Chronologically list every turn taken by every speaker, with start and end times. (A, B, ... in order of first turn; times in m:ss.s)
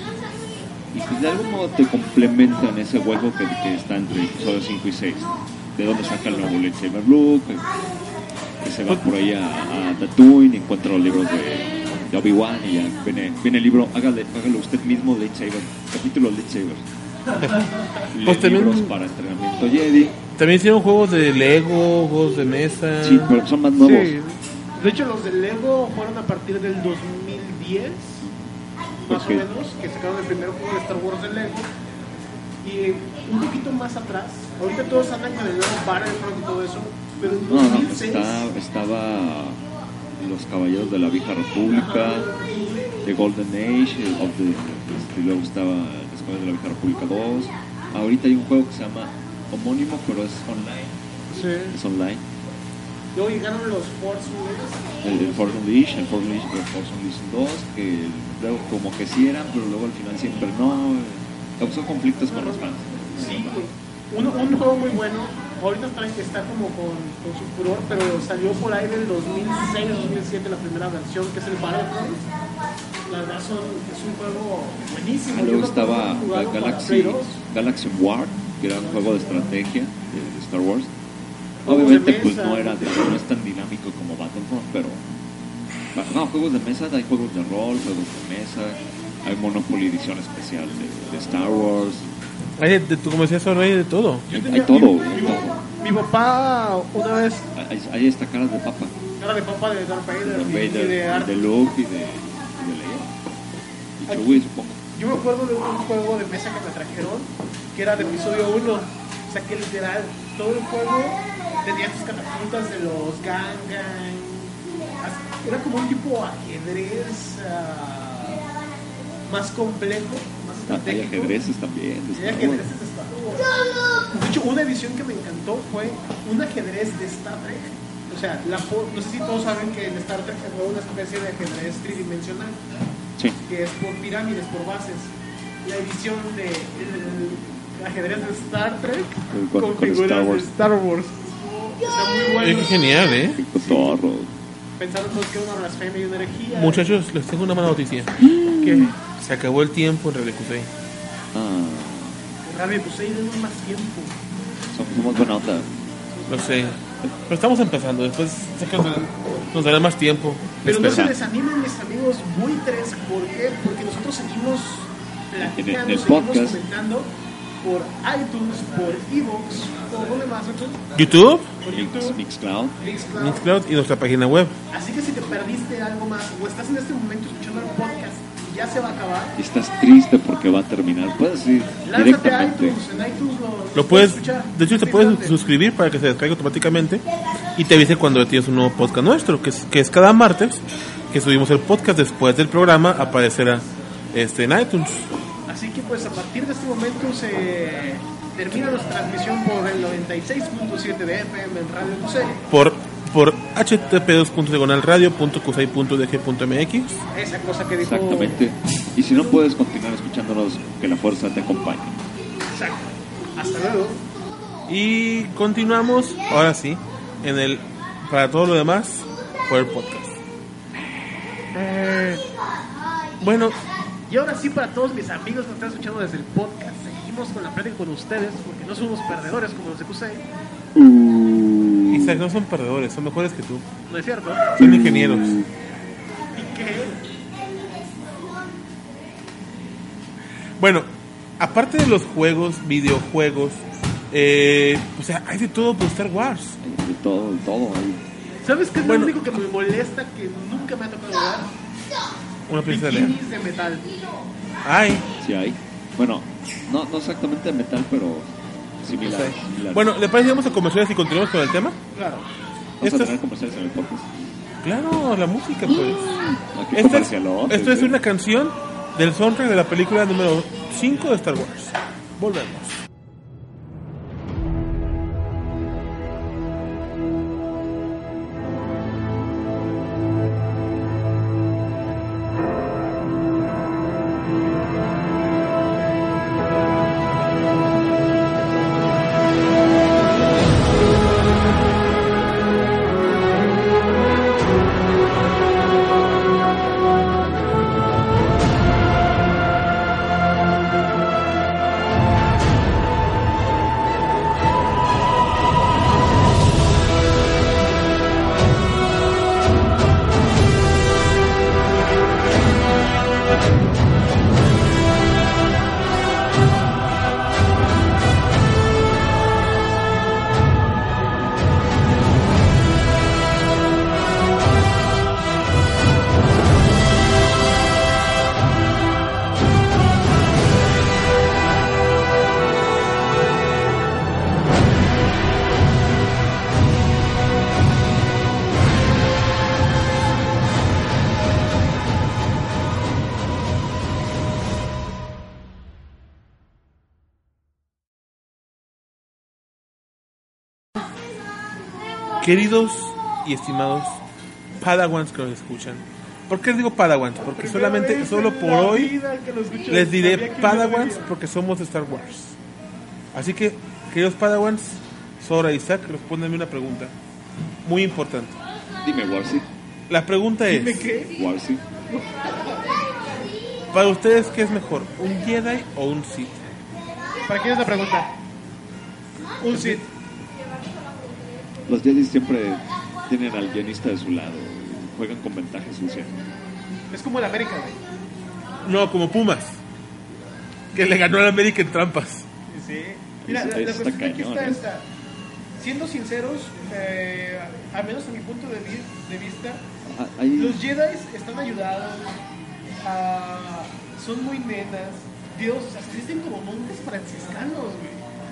0:00.9-0:07.7 A
0:08.6-0:16.9 A
0:17.5-0:17.9 B
0:18.0-0:20.2 A
0:18.2-0:18.9 C
0:20.4-0:23.4 C
0:23.0-0:24.1 A
0:23.8-0:28.3 B
0:29.0-0:31.7 B
0:29.1-0:29.5 A
0:32.6-0:38.5 B
0:37.5-0:39.6 A
0:40.2-0:42.3 A
0:41.7-0:42.9 B
0:43.0-0:51.0 A
0:51.3-0:51.8 B
0:51.7-0:52.2 A
0:53.2-0:55.6 B
0:55.0-1:03.6 A
1:02.3-1:12.3 B
1:13.1-1:17.4 B
1:15.3-1:20.9 A
1:18.8-1:19.5 B
1:21.6-1:23.2 B
1:21.7-1:25.0 A
1:25.9-1:32.1 A
1:32.6-1:34.3 C
1:34.3-1:37.5 B
1:34.3-1:35.6 A
1:37.6-1:39.0 A
1:39.2-1:41.5 B
1:40.2-1:43.1 A
1:44.0-1:44.8 A
1:44.1-1:44.4 B
1:44.9-1:58.4 B
1:59.3-2:01.4 B
2:00.7-2:02.7 A
2:02.1-2:12.6 B
2:13.4-2:22.9 B
2:19.3-2:20.5 A
2:22.4-2:23.4 C
2:23.4-2:24.3 A
2:23.6-2:23.9 B
2:24.8-2:26.9 B
2:26.5-2:28.2 C
2:28.2-2:28.9 A
2:28.6-2:28.9 B
2:29.0-2:30.7 C
2:31.3-2:32.2 A
2:32.5-2:34.2 B
2:34.7-2:35.7 A
2:36.1-2:36.7 B
2:36.3-2:41.1 C
2:40.6-2:51.0 B
2:40.7-2:41.2 A
2:45.4-2:46.6 A
2:51.0-2:51.5 C
2:51.6-2:52.2 B
2:51.7-2:52.8 A
2:52.8-2:53.5 B
2:53.2-2:54.6 C
2:54.7-2:59.4 B
2:59.4-3:02.8 A
3:01.8-3:05.4 B
3:03.8-3:07.0 C
3:07.6-3:15.1 C
3:15.5-3:22.4 B
3:22.5-3:27.0 C
3:27.1-3:28.4 B
3:27.8-3:32.0 A
3:29.1-3:29.4 B
3:32.5-3:34.0 B
3:34.7-3:40.2 C
3:41.5-3:42.2 B
3:43.2-3:43.6 C
3:44.1-3:50.3 B
3:50.8-3:52.2 A
3:51.9-3:53.6 C
3:53.9-3:54.6 B
3:54.6-3:55.4 C
3:54.6-3:55.5 A
3:56.4-3:57.0 B
4:00.6-4:06.6 C
4:06.6-4:08.0 A
4:08.4-4:11.6 B
4:08.8-4:09.2 C
4:12.5-4:13.2 C
4:12.6-4:13.9 B
4:14.6-4:15.1 C
4:15.2-4:19.9 A
4:19.0-4:21.8 C
4:21.9-4:22.3 B
4:22.8-4:24.1 A
4:22.8-4:23.2 C
4:24.6-4:26.2 C
4:25.8-4:28.0 A
4:26.7-4:32.8 C
5:52.2-5:54.0 C
5:54.6-5:58.9 C
5:57.2-6:01.1 B
5:59.7-6:02.4 C
6:03.1-6:06.9 C
6:07.6-6:08.4 C
6:08.8-6:09.4 A
6:09.9-6:10.9 C
6:10.5-6:11.1 B
6:11.0-6:11.6 A
6:11.9-6:12.2 B
6:13.7-6:16.4 C
6:17.3-6:18.1 B
6:19.4-6:19.9 B
6:19.5-6:19.8 C
6:21.7-6:26.2 A
6:26.9-6:27.8 B
6:28.6-6:29.6 C
6:30.7-6:32.3 C
6:32.5-6:34.9 B
6:33.2-6:34.6 A
6:35.6-6:39.6 B
6:39.8-6:40.6 A
6:40.4-6:42.2 B
6:42.8-6:48.0 B